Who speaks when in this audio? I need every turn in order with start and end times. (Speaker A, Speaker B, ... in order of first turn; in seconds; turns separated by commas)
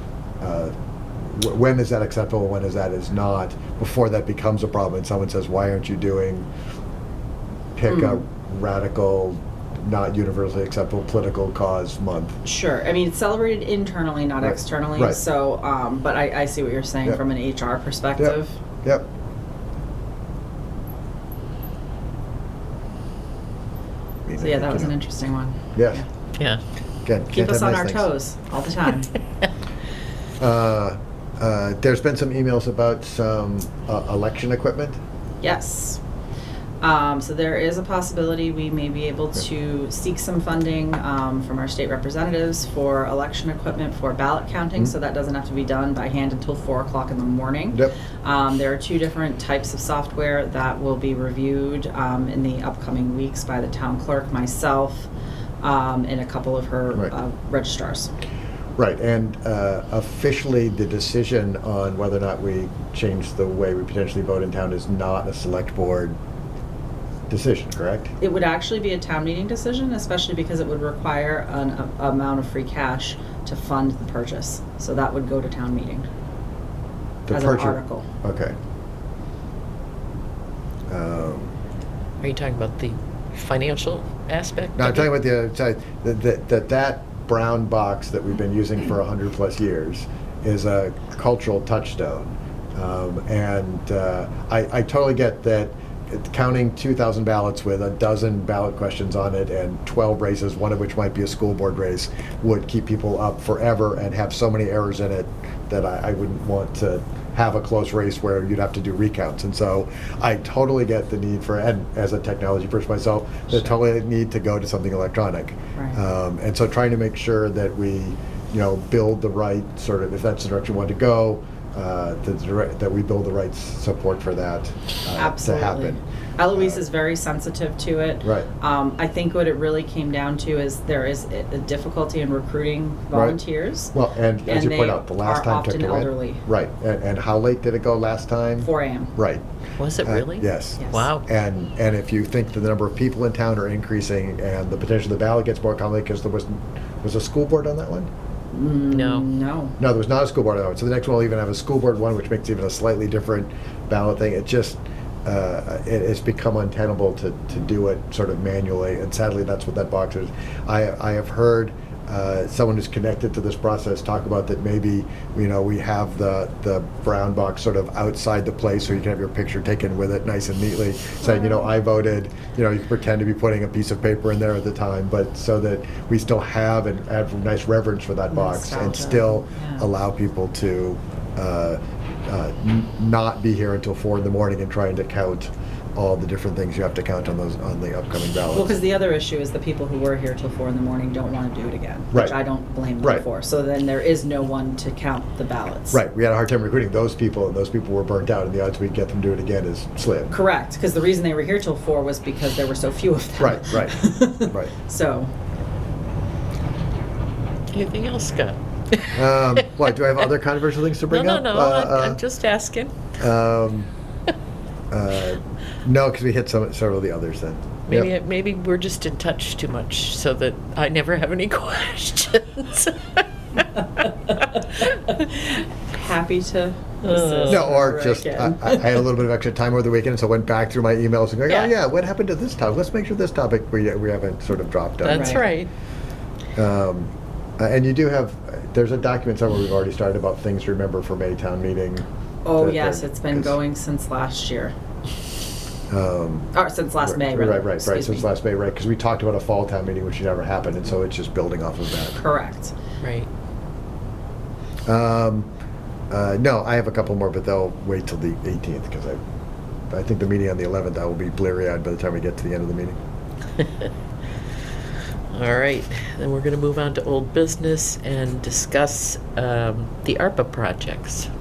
Speaker A: 0.4-6.5, Speaker A: 7.8-12.4, Speaker B: 7.9-8.2, Speaker B: 12.4-18.5, Speaker A: 14.4-15.2, Speaker A: 18.2-19.1, Speaker A: 24.3-24.9, Speaker B: 24.4-26.1, Speaker A: 25.7-26.0, Speaker C: 26.4-26.6, Speaker A: 27.1-28.1, Speaker B: 27.3-29.1, Speaker A: 30.4-35.0, Speaker B: 35.4-36.0, Speaker B: 36.8-55.1, Speaker B: 55.6-58.1, Speaker A: 58.8-66.2, Speaker A: 67.3-68.1, Speaker B: 68.2-76.1, Speaker A: 77.3-78.5, Speaker B: 77.3-78.0, Speaker A: 80.9-81.5, Speaker C: 82.2-85.1, Speaker A: 84.8-126.0, Speaker B: 125.1-133.9, Speaker A: 126.5-126.8, Speaker A: 128.2-128.5, Speaker A: 133.1-133.4, Speaker A: 133.9-139.4, Speaker B: 134.4-136.4, Speaker B: 138.6-139.1, Speaker C: 139.8-141.2, Speaker A: 140.0-148.1, Speaker B: 140.8-141.1, Speaker B: 148.5-149.8, Speaker C: 148.9-149.3, Speaker A: 149.8-188.8, Speaker B: 171.2-171.7, Speaker B: 178.3-179.9, Speaker B: 188.5-196.0, Speaker A: 195.9-200.3, Speaker B: 200.3-205.3, Speaker A: 203.4-204.7, Speaker C: 207.7-209.7, Speaker A: 209.1-212.2, Speaker C: 211.1-213.2, Speaker A: 213.2-213.9, Speaker A: 214.9-218.1, Speaker C: 217.9-225.1, Speaker B: 225.1-229.1, Speaker C: 227.0-227.8, Speaker A: 227.5-235.4, Speaker C: 235.0-235.7, Speaker B: 235.1-235.4, Speaker A: 236.6-242.1, Speaker B: 242.4-244.7, Speaker A: 242.6-243.6, Speaker A: 245.9-252.2, Speaker B: 246.5-248.3, Speaker B: 252.2-252.7, Speaker C: 253.0-253.3, Speaker A: 254.9-255.5, Speaker A: 256.1-259.2, Speaker A: 259.9-263.0, Speaker C: 265.3-271.3